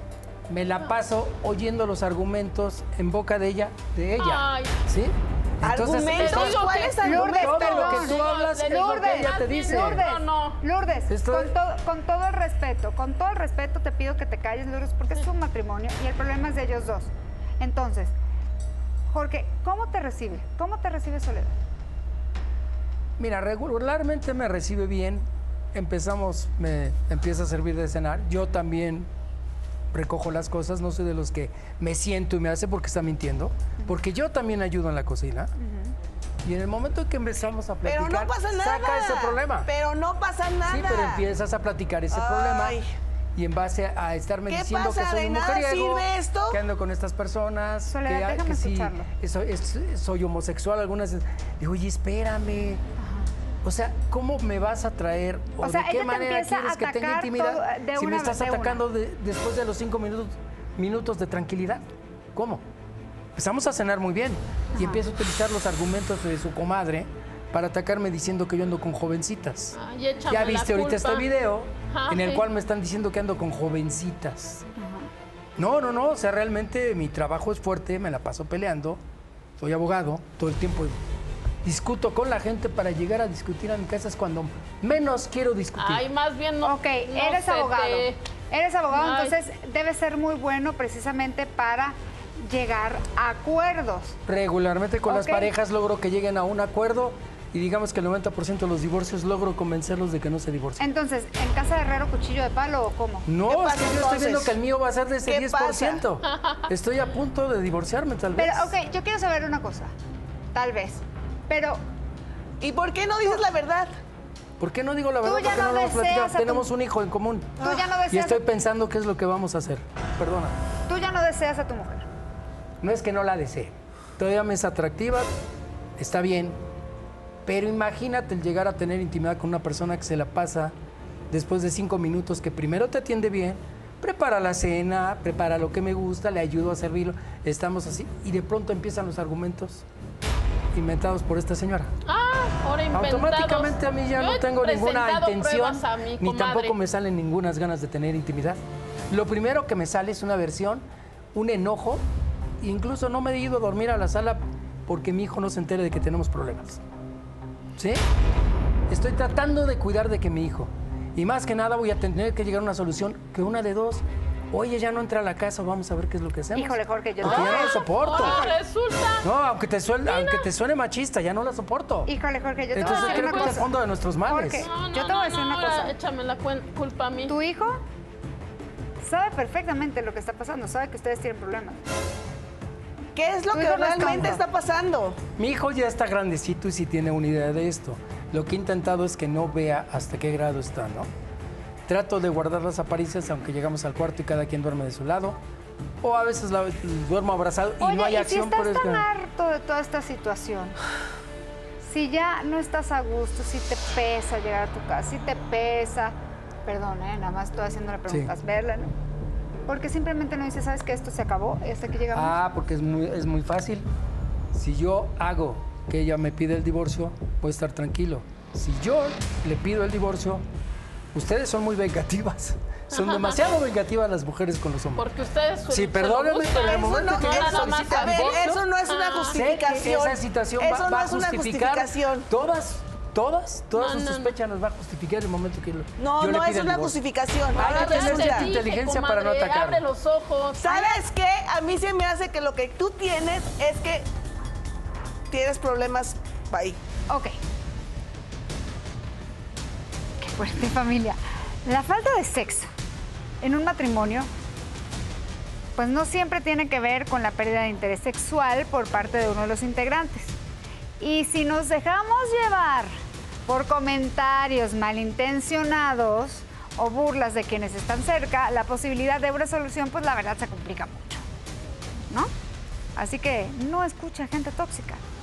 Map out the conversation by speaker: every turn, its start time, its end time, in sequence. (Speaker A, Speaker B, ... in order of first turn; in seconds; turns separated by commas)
Speaker A: 0.5-10.0, Speaker B: 4.2-4.8, Speaker C: 5.6-7.7, Speaker B: 6.0-10.6, Speaker D: 7.0-18.1, Speaker A: 11.1-11.5, Speaker D: 19.1-21.6, Speaker A: 23.2-29.1, Speaker A: 29.9-35.5, Speaker D: 35.5-36.0, Speaker A: 36.4-39.7, Speaker C: 37.8-41.2, Speaker A: 40.6-42.8, Speaker C: 42.1-42.9, Speaker A: 43.4-52.8, Speaker C: 44.5-46.6, Speaker D: 47.9-49.1, Speaker D: 53.0-53.3, Speaker A: 53.6-62.6, Speaker D: 55.6-58.8, Speaker A: 63.4-69.8, Speaker D: 64.7-65.0, Speaker B: 69.7-71.2, Speaker A: 70.3-74.6, Speaker B: 71.9-72.5, Speaker D: 74.8-75.1, Speaker A: 75.6-79.0, Speaker A: 79.6-81.0, Speaker A: 81.6-86.0, Speaker B: 85.8-88.2, Speaker D: 86.6-94.2, Speaker B: 88.9-89.4, Speaker A: 94.3-100.8, Speaker D: 95.1-95.5, Speaker D: 100.8-103.3, Speaker A: 103.2-108.7, Speaker C: 103.5-104.5, Speaker C: 105.2-106.0, Speaker B: 106.2-106.7, Speaker D: 108.4-109.9, Speaker D: 110.5-111.8, Speaker C: 112.6-113.9, Speaker A: 114.6-120.5, Speaker D: 115.2-116.7, Speaker D: 117.6-118.4, Speaker D: 120.9-122.1, Speaker A: 122.8-125.3, Speaker A: 126.0-126.6, Speaker A: 127.5-130.7, Speaker A: 131.3-139.8, Speaker A: 140.7-141.9, Speaker B: 142.0-146.7, Speaker A: 142.9-152.0, Speaker A: 152.6-156.8, Speaker A: 157.8-158.0, Speaker A: 158.9-168.4, Speaker D: 166.5-168.5, Speaker B: 167.2-169.2, Speaker A: 169.2-172.1, Speaker B: 170.0-170.4, Speaker D: 172.1-173.7, Speaker A: 172.7-174.7, Speaker B: 172.8-173.6, Speaker D: 174.3-175.9, Speaker B: 174.6-177.3, Speaker D: 177.3-177.8, Speaker D: 179.0-181.8, Speaker C: 183.2-185.2, Speaker D: 183.5-184.4, Speaker A: 185.4-191.1, Speaker A: 191.9-195.4, Speaker A: 196.0-199.1, Speaker D: 197.8-200.8, Speaker D: 201.8-206.1, Speaker D: 206.7-208.9, Speaker D: 209.7-212.3, Speaker A: 212.1-213.9, Speaker A: 214.5-220.4, Speaker A: 221.1-225.1, Speaker B: 222.9-223.4, Speaker B: 224.9-229.4, Speaker A: 225.7-228.6, Speaker C: 226.5-232.3, Speaker A: 229.3-237.0, Speaker B: 233.7-234.3, Speaker C: 236.0-238.5, Speaker A: 237.5-239.8, Speaker B: 237.5-240.8, Speaker C: 240.6-244.1, Speaker C: 245.3-246.8, Speaker D: 247.1-247.3, Speaker D: 250.2-252.7, Speaker D: 253.4-254.3, Speaker D: 255.8-260.4, Speaker D: 261.0-262.9, Speaker D: 263.5-271.2, Speaker D: 272.9-275.0